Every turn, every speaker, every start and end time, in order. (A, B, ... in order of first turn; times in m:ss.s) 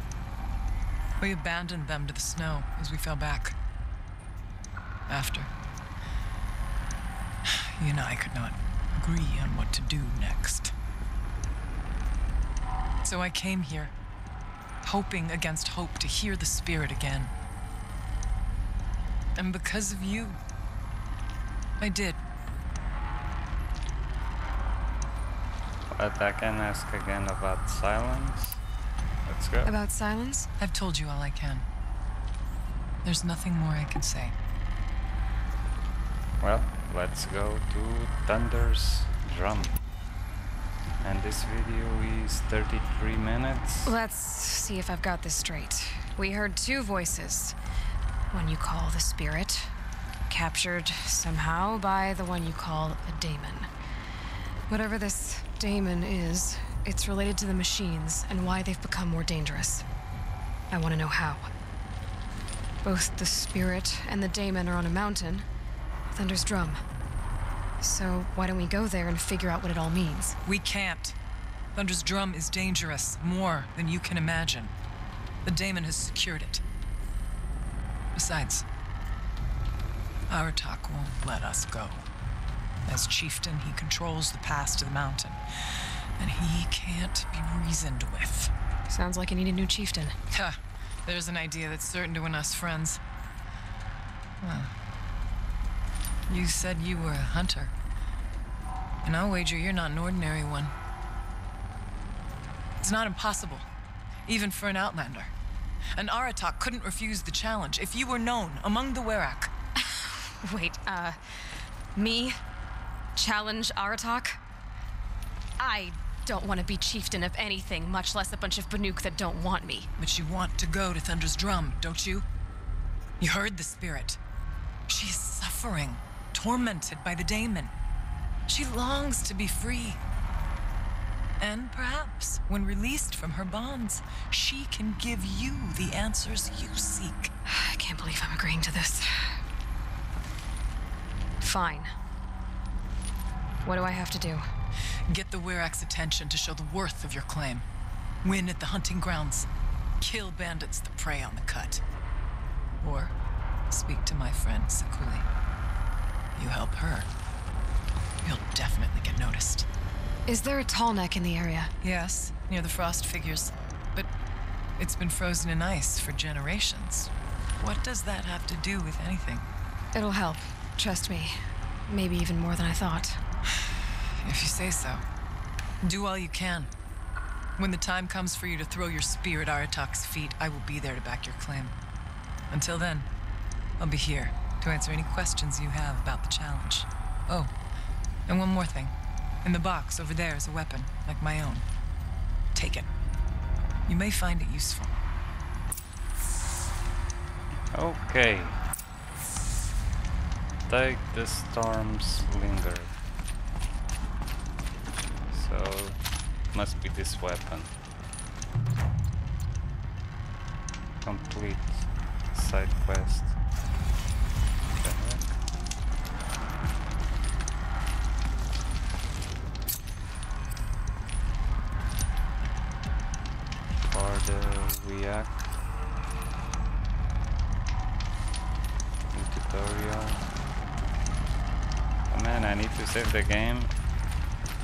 0:01.2-0:03.6 A
0:05.1-0:05.5 A
0:07.4-0:10.7 A
0:13.0-0:13.9 A
0:14.8-0:17.3 A
0:19.4-0:20.4 A
0:21.8-0:22.2 A
0:25.9-0:28.6 B
0:29.2-0:29.7 B
0:29.6-0:30.5 C
0:30.6-0:31.6 A
0:33.0-0:34.3 A
0:36.4-0:39.8 B
0:41.0-0:43.9 B
0:43.8-0:47.6 C
0:48.3-0:49.7 C
0:50.3-0:53.7 C
0:54.7-0:59.8 C
1:00.7-1:01.5 C
1:02.8-1:05.4 C
1:06.1-1:06.8 C
1:07.8-1:10.4 C
1:10.4-1:11.1 A
1:11.8-1:14.7 A
1:15.4-1:16.6 A
1:18.1-1:18.6 A
1:20.3-1:22.0 A
1:22.8-1:25.4 A
1:26.2-1:28.5 A
1:28.9-1:30.2 C
1:30.3-1:33.0 A
1:34.4-1:34.7 A
1:36.3-1:37.7 A
1:39.0-1:40.7 A
1:42.8-1:43.6 A
1:44.3-1:45.3 A
1:45.9-1:49.5 A
1:49.8-1:52.4 C
1:53.2-1:54.4 C
1:55.6-1:59.9 C
2:00.0-2:02.2 A
2:03.2-2:04.2 A
2:04.9-2:07.7 A
2:08.5-2:10.0 A
2:11.4-2:17.3 A
2:17.4-2:19.3 C
2:21.4-2:21.9 C
2:23.6-2:24.4 C
2:25.1-2:27.6 A
2:28.2-2:29.5 A
2:30.0-2:31.8 A
2:32.8-2:33.1 A
2:33.7-2:35.3 A
2:36.4-2:37.1 A
2:38.2-2:39.7 A
2:40.3-2:41.7 C
2:41.8-2:44.1 A
2:44.8-2:49.4 A
2:49.9-2:53.2 C
2:54.2-2:55.0 A
2:55.8-2:56.7 A
2:57.6-3:01.7 A
3:02.5-3:03.1 A
3:03.8-3:07.5 A
3:08.3-3:11.6 A
3:12.6-3:12.9 A
3:13.9-3:15.0 A
3:17.7-3:18.6 B
3:20.7-3:23.0 B
3:25.3-3:26.0 B
3:26.5-3:27.7 B
3:31.0-3:33.4 B
3:34.7-3:35.4 B
3:43.7-3:45.5 B
3:49.1-3:50.2 B
3:52.1-3:53.7 B